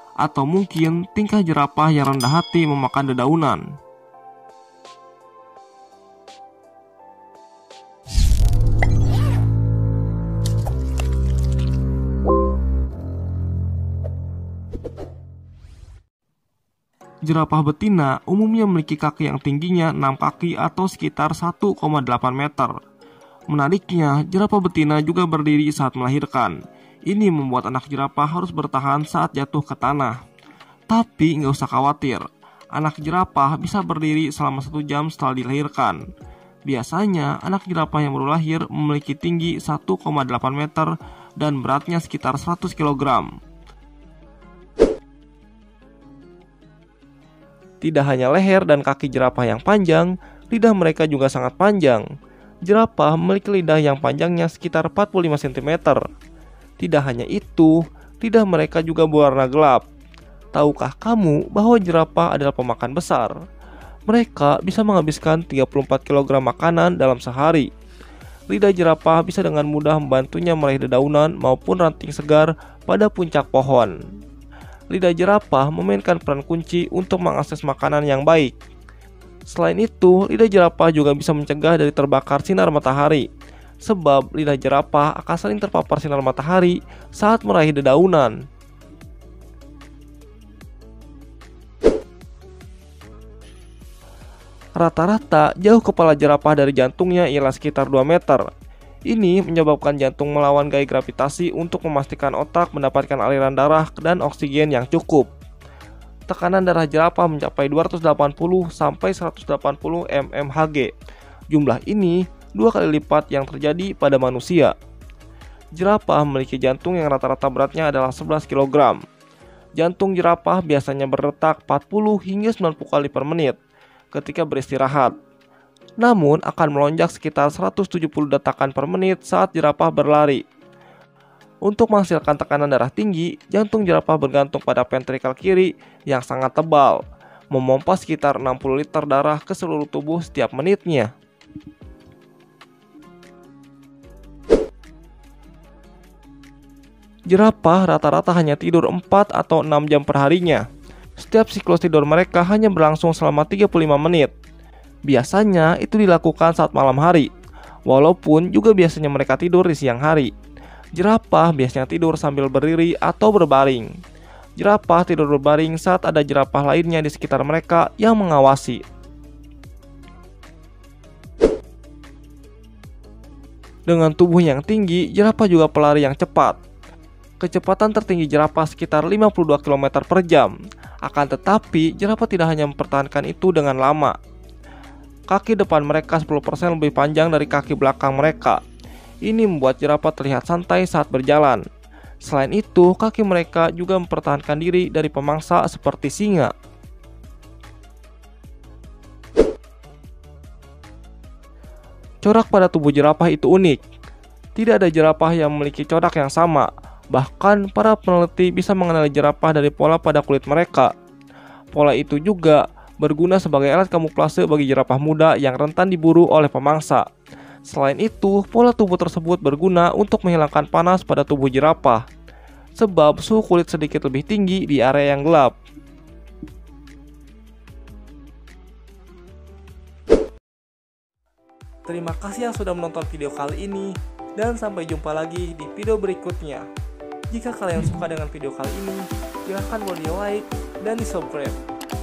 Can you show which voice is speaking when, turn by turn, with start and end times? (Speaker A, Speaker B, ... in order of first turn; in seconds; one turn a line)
Speaker A: 0.2-3.7
Speaker A: 17.2-22.8
Speaker A: 23.5-30.2
Speaker A: 30.9-36.0
Speaker A: 36.7-43.4
Speaker A: 47.8-52.0
Speaker A: 52.6-56.0
Speaker A: 56.8-59.9
Speaker A: 60.5-63.3
Speaker A: 64.1-67.7
Speaker A: 68.5-74.0
Speaker A: 74.9-78.5
Speaker A: 79.5-83.3
Speaker A: 83.8-88.4
Speaker A: 94.8-98.5
Speaker A: 99.1-105.3
Speaker A: 106.3-110.9
Speaker A: 111.5-114.8
Speaker A: 115.8-119.0
Speaker A: 119.8-123.6
Speaker A: 124.1-125.2
Speaker A: 126.0-130.4
Speaker A: 131.7-141.1
Speaker A: 147.3-150.6
Speaker A: 151.2-154.3
Speaker A: 155.1-157.3
Speaker A: 157.9-160.3
Speaker A: 160.9-163.9
Speaker A: 164.6-168.8
Speaker A: 173.9-176.6
Speaker A: 177.4-184.2
Speaker A: 185.3-188.6
Speaker A: 189.2-191.6
Speaker A: 192.2-196.5
Speaker A: 202.2-203.8
Speaker A: 204.6-210.9
Speaker A: 211.7-217.1
Speaker A: 217.7-222.1
Speaker A: 222.8-225.6
Speaker A: 231.9-236.7
Speaker A: 237.3-241.6